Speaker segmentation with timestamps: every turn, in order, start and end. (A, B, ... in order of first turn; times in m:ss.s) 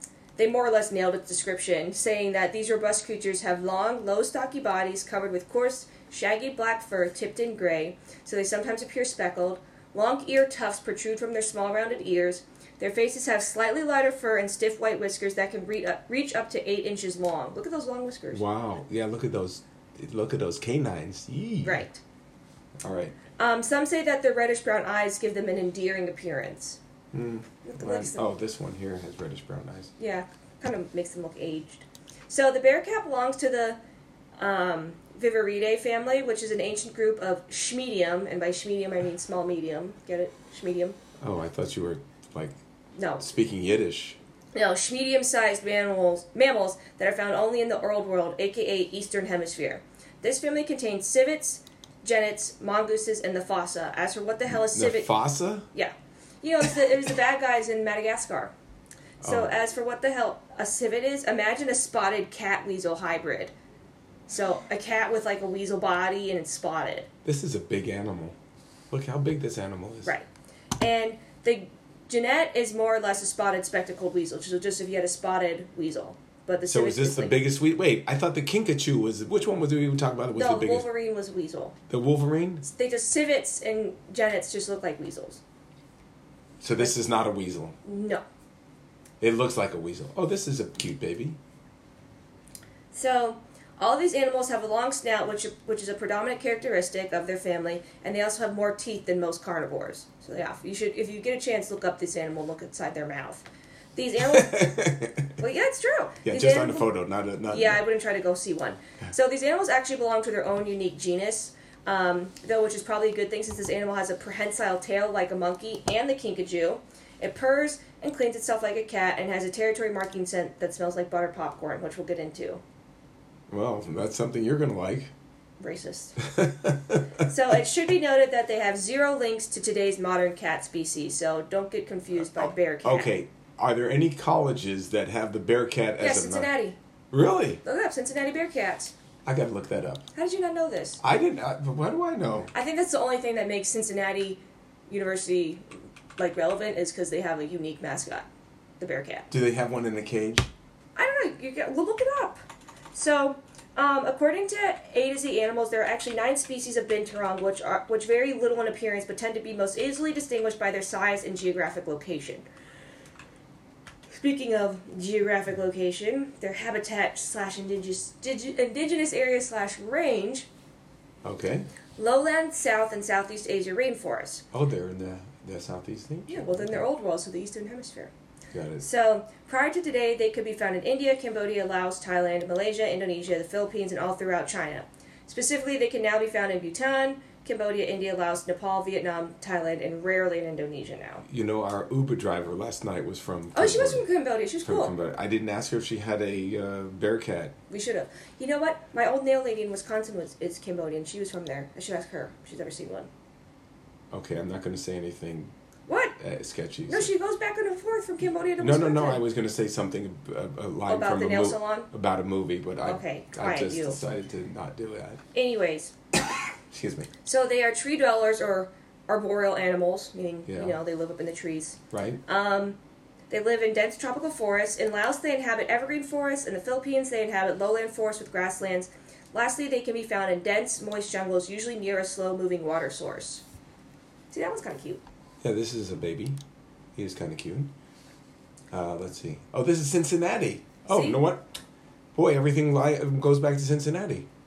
0:00.4-0:18.4 A
0:18.3-0:21.8 B
0:21.6-0:22.0 A
0:22.8-0:23.1 B
0:23.4-0:26.8 A
0:27.1-0:29.9 B
0:27.6-0:28.2 A
0:30.0-0:33.8 A
0:34.4-0:41.0 A
0:41.2-0:42.6 B
0:43.0-0:43.2 A
0:43.2-0:44.2 B
0:44.5-0:55.1 A
0:54.5-0:55.7 B
0:55.7-0:58.5 A
0:59.2-0:59.5 B
0:59.2-1:03.5 A
1:04.3-1:07.1 A
1:07.2-1:08.3 B
1:08.9-1:10.1 B
1:10.8-1:17.4 A
1:16.7-1:20.9 B
1:20.4-1:21.8 A
1:21.9-1:22.6 B
1:22.6-1:25.4 A
1:26.6-1:27.8 B
1:27.8-1:28.2 A
1:29.2-1:31.4 B
1:32.9-1:44.8 A
1:44.3-1:45.4 B
1:45.4-1:46.9 A
1:46.2-1:47.8 B
1:47.5-2:02.6 A
2:03.5-2:05.1 B
2:05.6-2:06.2 A
2:06.2-2:07.2 B
2:07.2-2:13.1 A
2:12.3-2:16.5 B
2:16.0-2:16.8 A
2:17.1-2:17.6 B
2:17.6-2:18.9 A
2:19.2-2:20.0 B
2:20.1-2:21.0 A
2:21.0-2:22.5 B
2:22.5-2:25.6 A
2:26.2-2:28.3 A
2:28.8-2:29.3 A
2:29.3-2:30.5 B
2:31.0-2:32.4 A
2:32.9-2:42.4 A
2:44.1-2:50.5 A
2:51.2-2:51.7 B
2:52.0-2:54.4 A
2:54.5-2:56.8 B
2:56.3-2:58.1 A
2:58.5-2:58.8 B
2:58.8-3:11.2 A
3:11.2-3:14.0 B
3:13.5-3:14.9 A
3:14.6-3:17.5 B
3:17.7-3:23.1 A
3:24.1-3:25.5 B
3:25.9-3:26.2 A
3:26.2-3:27.1 B
3:26.9-3:29.2 A
3:28.6-3:35.2 B
3:30.9-3:31.9 A
3:32.8-3:34.0 A
3:35.3-3:35.9 A
3:36.7-3:37.1 B
3:37.2-3:42.8 A
3:40.5-3:40.8 B
3:41.9-3:42.2 B
3:43.3-3:53.4 A
3:54.3-3:55.0 A
3:55.4-3:56.4 B
3:56.9-3:57.7 B
3:58.7-4:01.5 B
4:00.9-4:01.2 A
4:02.1-4:04.3 B